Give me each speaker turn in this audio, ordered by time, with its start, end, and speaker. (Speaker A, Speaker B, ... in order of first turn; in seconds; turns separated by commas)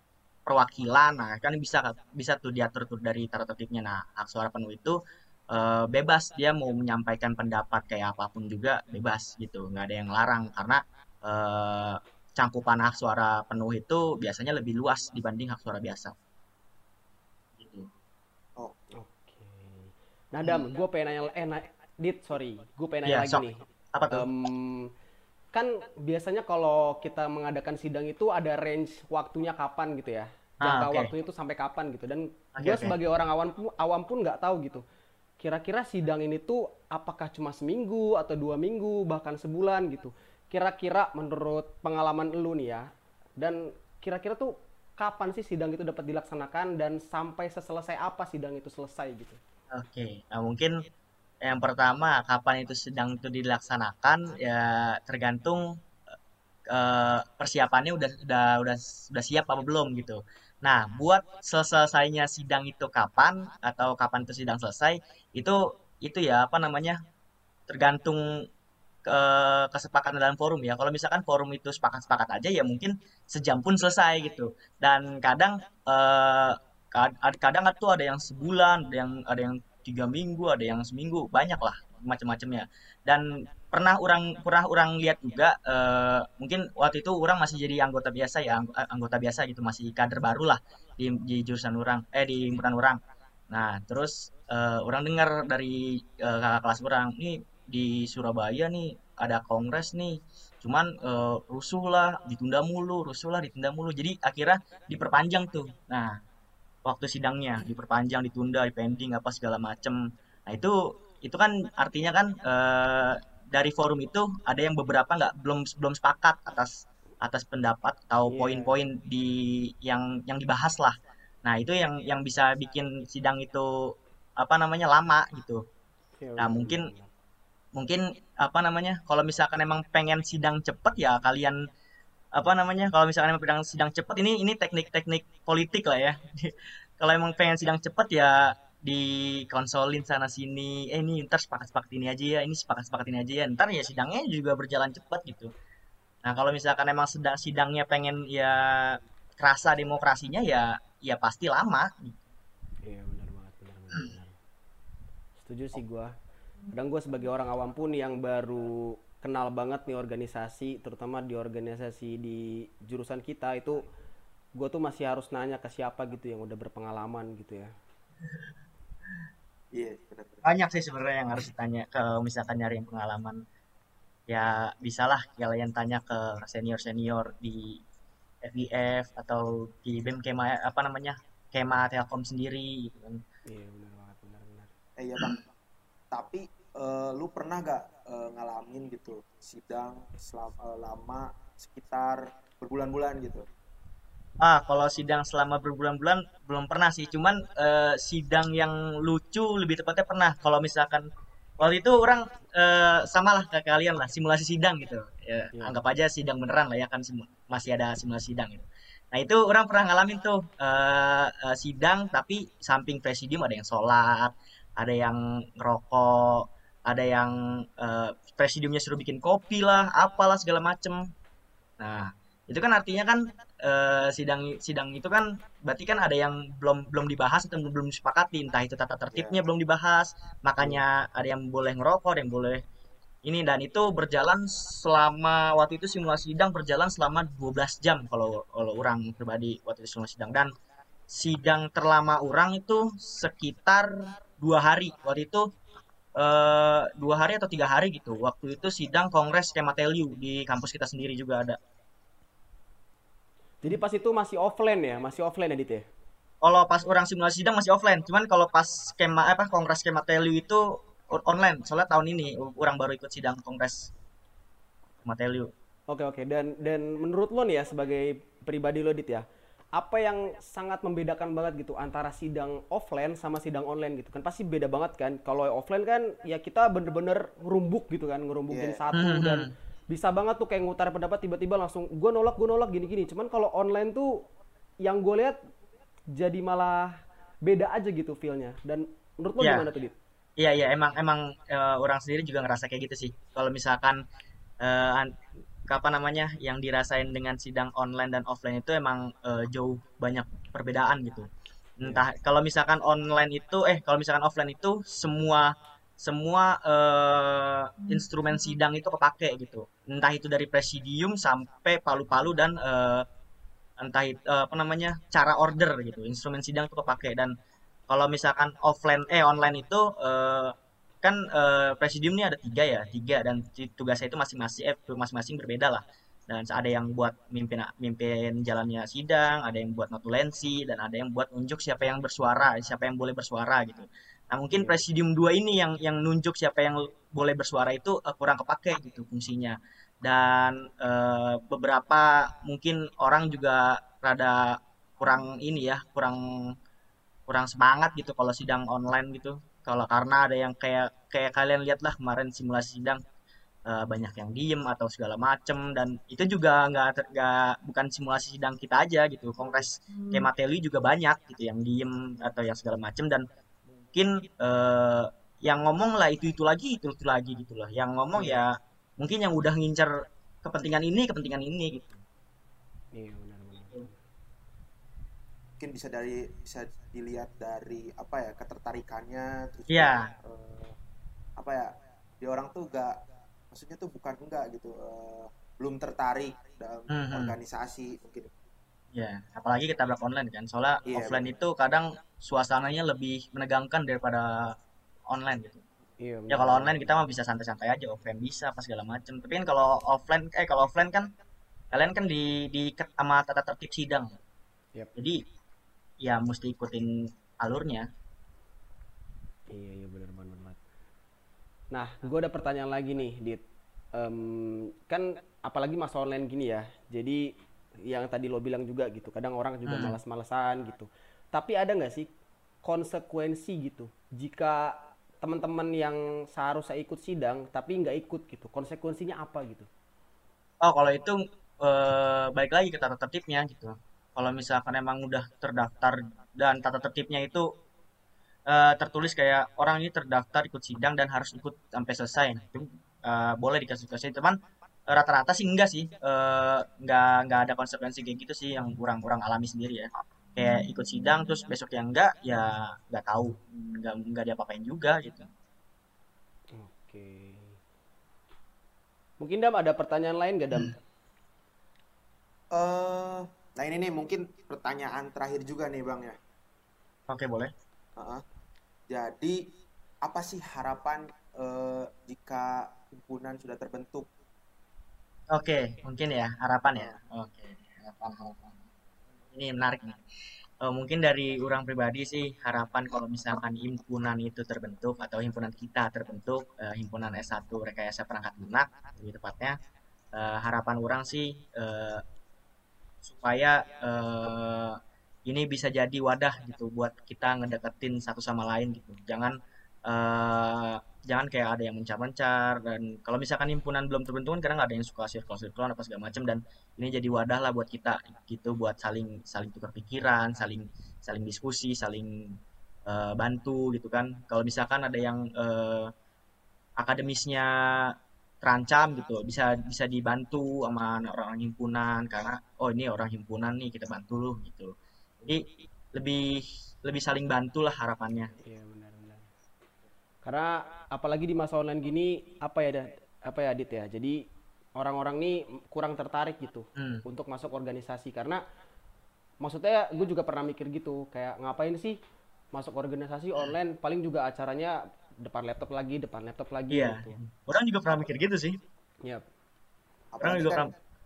Speaker A: 0.5-5.0, Speaker A: 5.5-16.1, Speaker A: 17.6-17.9, Speaker B: 19.0-24.9, Speaker A: 23.1-24.3, Speaker B: 25.5-34.8, Speaker A: 30.6-31.1, Speaker A: 32.5-33.0, Speaker B: 35.4-49.4, Speaker A: 49.7-50.8, Speaker A: 51.4-55.7, Speaker A: 56.7-67.0, Speaker A: 67.7-68.5, Speaker A: 69.0-106.2, Speaker A: 106.8-125.6, Speaker B: 118.3-118.8, Speaker B: 126.2-127.1, Speaker A: 126.4-126.9, Speaker A: 127.7-131.6, Speaker A: 132.3-145.5, Speaker A: 146.2-152.2, Speaker B: 152.8-154.3, Speaker B: 155.4-156.1, Speaker B: 156.7-163.8, Speaker B: 164.6-167.7, Speaker C: 169.7-170.4, Speaker A: 170.4-173.4, Speaker A: 174.3-177.8, Speaker A: 178.4-183.2, Speaker B: 183.5-184.7, Speaker C: 185.0-185.4, Speaker C: 186.1-193.4, Speaker A: 194.4-201.1, Speaker A: 201.6-221.1, Speaker A: 221.8-232.6, Speaker A: 233.2-240.5, Speaker A: 241.1-245.5, Speaker A: 246.2-251.6, Speaker B: 253.6-255.8, Speaker A: 256.4-263.9, Speaker A: 265.0-265.5, Speaker B: 265.9-269.2, Speaker B: 269.8-284.2, Speaker C: 278.5-278.8, Speaker A: 278.9-279.5, Speaker B: 284.8-285.4, Speaker B: 286.1-289.9, Speaker A: 289.4-289.7, Speaker A: 290.4-294.0, Speaker A: 294.6-295.1, Speaker A: 295.6-301.3, Speaker A: 301.8-313.1, Speaker A: 313.8-317.3, Speaker A: 317.9-346.5, Speaker B: 334.5-334.8, Speaker A: 347.3-353.0, Speaker A: 353.7-363.3, Speaker A: 363.9-371.9, Speaker B: 372.9-373.9, Speaker C: 375.6-380.7, Speaker A: 379.7-380.1, Speaker C: 381.4-382.9, Speaker C: 383.5-388.3, Speaker A: 386.9-387.3, Speaker A: 388.9-394.6, Speaker C: 390.9-391.3, Speaker A: 395.1-395.6, Speaker B: 396.0-396.8, Speaker A: 396.3-401.1, Speaker A: 401.7-404.1, Speaker A: 404.9-405.2, Speaker A: 406.0-407.9, Speaker B: 409.5-410.6, Speaker B: 411.7-413.4, Speaker B: 413.9-417.3, Speaker B: 417.9-422.1, Speaker A: 419.7-420.0, Speaker B: 422.6-429.7, Speaker A: 430.6-437.5, Speaker A: 438.5-455.3, Speaker B: 456.5-457.6, Speaker B: 459.2-460.8, Speaker C: 462.5-466.2, Speaker A: 467.1-467.5, Speaker C: 468.0-468.2, Speaker C: 468.9-469.4, Speaker C: 470.0-474.1, Speaker A: 475.3-478.6, Speaker A: 479.3-480.0, Speaker A: 480.6-489.6, Speaker A: 490.1-492.0, Speaker A: 493.0-515.9, Speaker A: 516.8-528.4, Speaker B: 528.4-529.3, Speaker B: 530.2-534.2, Speaker B: 534.8-538.4, Speaker A: 536.8-537.0, Speaker B: 539.4-542.0, Speaker B: 542.5-547.2, Speaker A: 546.7-548.6, Speaker C: 550.1-550.7, Speaker A: 550.2-550.7